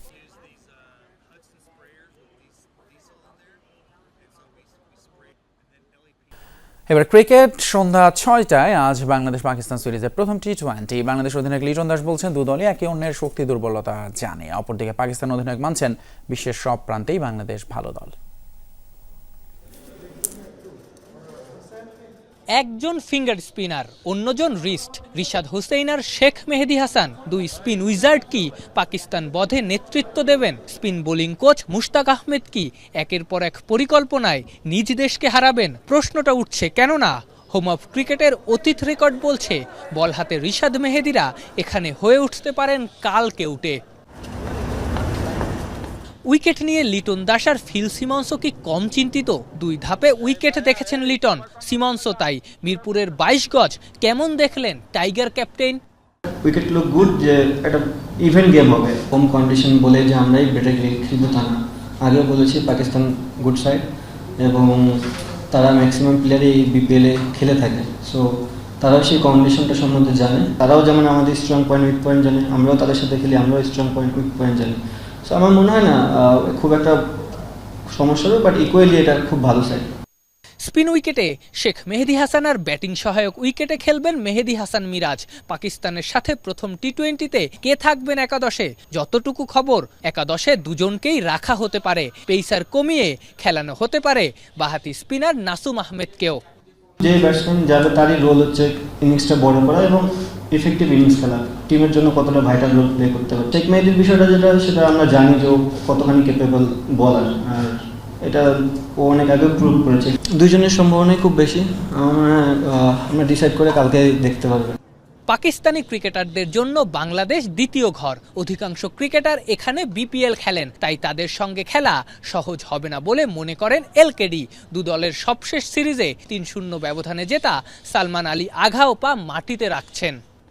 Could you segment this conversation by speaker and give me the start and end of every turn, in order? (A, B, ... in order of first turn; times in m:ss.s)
0:06.9-0:18.1 A
0:22.6-0:43.8 B
0:46.3-0:55.8 B
0:56.4-1:03.9 C
1:04.4-1:17.2 C
1:17.9-1:19.9 C
1:20.6-1:36.4 B
1:37.0-1:54.8 C
1:55.3-2:10.2 B